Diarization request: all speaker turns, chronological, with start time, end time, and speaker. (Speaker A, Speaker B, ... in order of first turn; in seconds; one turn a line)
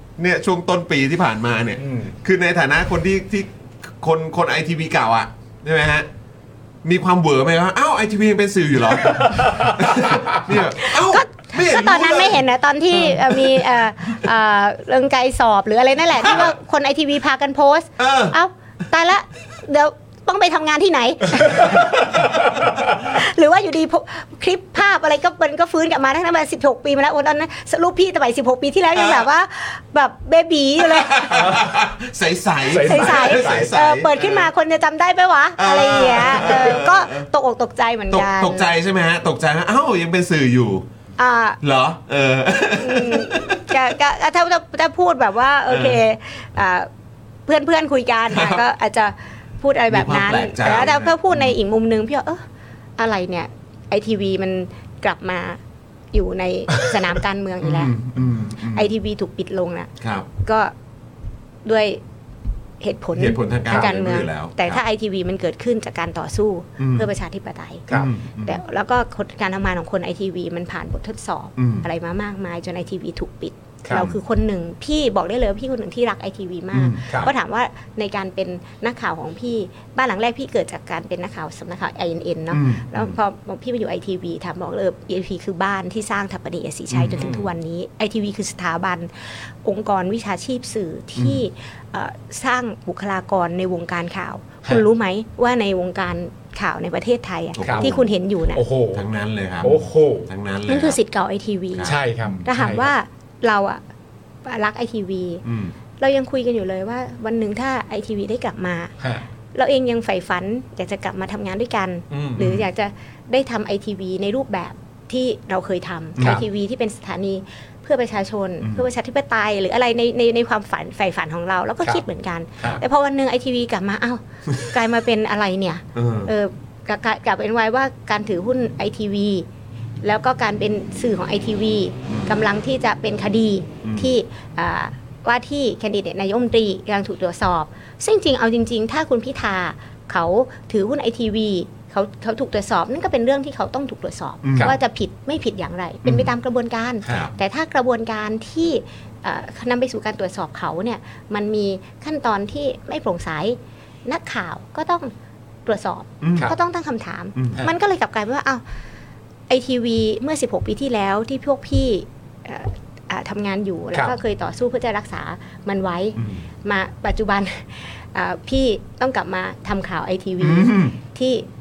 Speaker A: 0.2-6.1
Speaker B: 1.8-2.1
Speaker A: 6.8-12.4
Speaker B: 9.5-10.4
Speaker C: 10.8-31.5
Speaker A: 13.1-13.6
Speaker A: 18.0-18.4
Speaker A: 21.6-22.3
Speaker A: 29.0-29.2
Speaker A: 30.8-34.5
Speaker B: 31.3-31.7
Speaker B: 32.7-33.7
Speaker C: 32.7-38.8
Speaker A: 35.6-37.3
Speaker A: 38.1-40.9
Speaker C: 41.2-41.6
Speaker A: 41.6-43.9
Speaker C: 42.8-46.9
Speaker A: 45.7-46.0
Speaker C: 47.5-52.4
Speaker A: 48.3-48.6
Speaker A: 49.9-51.5
Speaker C: 53.0-55.6
Speaker C: 56.1-58.0
Speaker A: 57.6-58.9
Speaker C: 58.6-60.7
Speaker A: 60.0-60.3
Speaker C: 61.6-62.0
Speaker C: 62.8-67.9
Speaker A: 63.1-64.8
Speaker A: 66.8-67.1
Speaker A: 67.9-68.6
Speaker C: 68.4-98.6
Speaker A: 71.6-71.9
Speaker A: 76.7-77.3
Speaker A: 82.5-83.2
Speaker A: 86.9-87.3
Speaker B: 87.2-87.5
Speaker A: 91.2-91.4
Speaker A: 97.6-98.1
Speaker B: 97.6-98.0
Speaker B: 98.5-99.0
Speaker A: 98.9-101.0
Speaker B: 99.6-100.3
Speaker C: 100.7-103.8
Speaker A: 101.7-102.0
Speaker B: 101.8-102.9
Speaker C: 104.5-105.4
Speaker A: 105.5-105.8
Speaker C: 106.0-108.9
Speaker B: 109.0-109.2
Speaker C: 109.5-129.5
Speaker B: 112.1-112.5
Speaker A: 112.4-112.7
Speaker A: 116.2-116.4
Speaker B: 116.2-116.5
Speaker A: 118.6-118.9
Speaker A: 126.0-126.3
Speaker C: 130.0-155.1
Speaker A: 132.1-132.4
Speaker A: 133.8-134.2
Speaker A: 144.4-144.7
Speaker A: 146.0-146.3
Speaker A: 147.1-147.3
Speaker C: 155.7-158.6
Speaker A: 156.2-156.6
Speaker A: 157.4-157.6
Speaker C: 159.5-171.5
Speaker A: 166.2-166.4
Speaker A: 170.4-171.0